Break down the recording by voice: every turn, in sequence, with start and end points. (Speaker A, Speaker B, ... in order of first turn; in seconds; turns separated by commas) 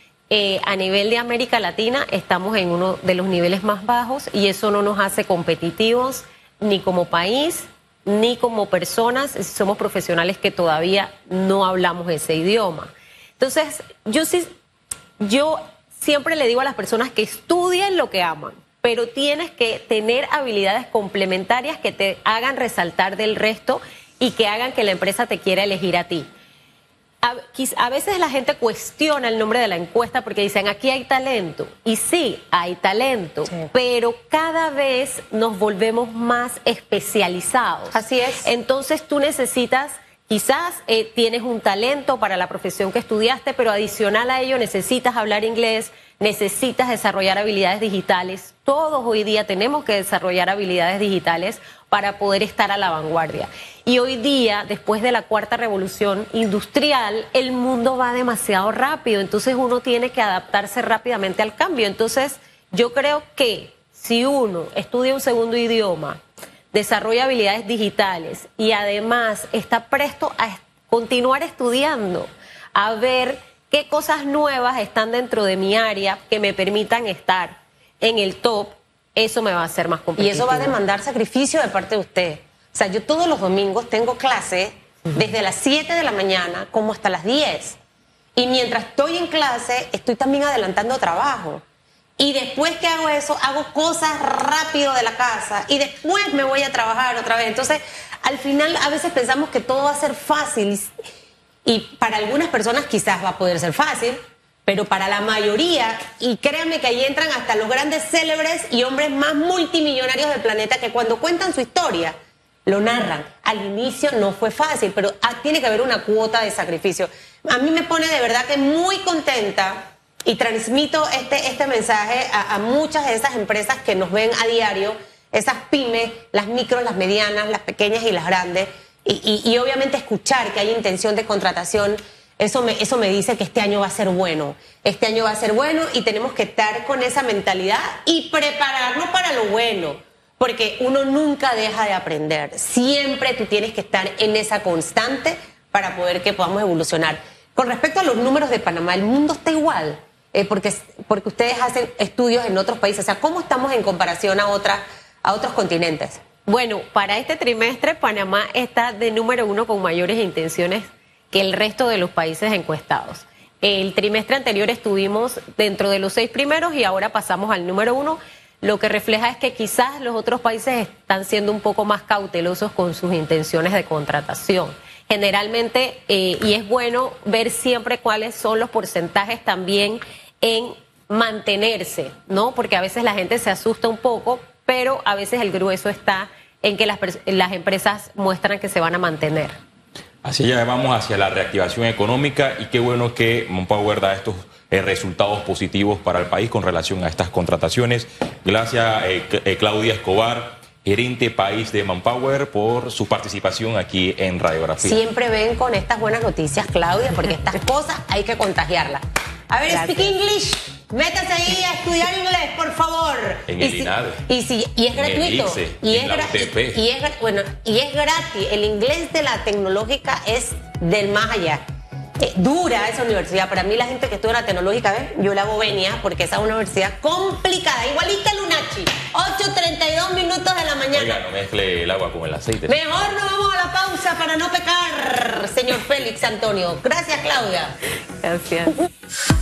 Speaker A: 0.3-14.5, Speaker A: 15.2-26.3, Speaker A: 27.2-66.2, Speaker B: 37.9-38.5, Speaker A: 66.7-80.8, Speaker B: 80.2-87.8, Speaker B: 88.4-91.6, Speaker B: 92.2-100.9, Speaker B: 101.6-112.1, Speaker B: 112.7-156.2, Speaker A: 156.5-189.6, Speaker C: 190.2-205.0, Speaker B: 204.8-221.6, Speaker A: 209.7-210.1, Speaker C: 213.5-214.2, Speaker C: 214.9-216.8, Speaker B: 222.2-231.2, Speaker C: 230.9-232.8, Speaker B: 232.7-237.8, Speaker A: 238.2-238.8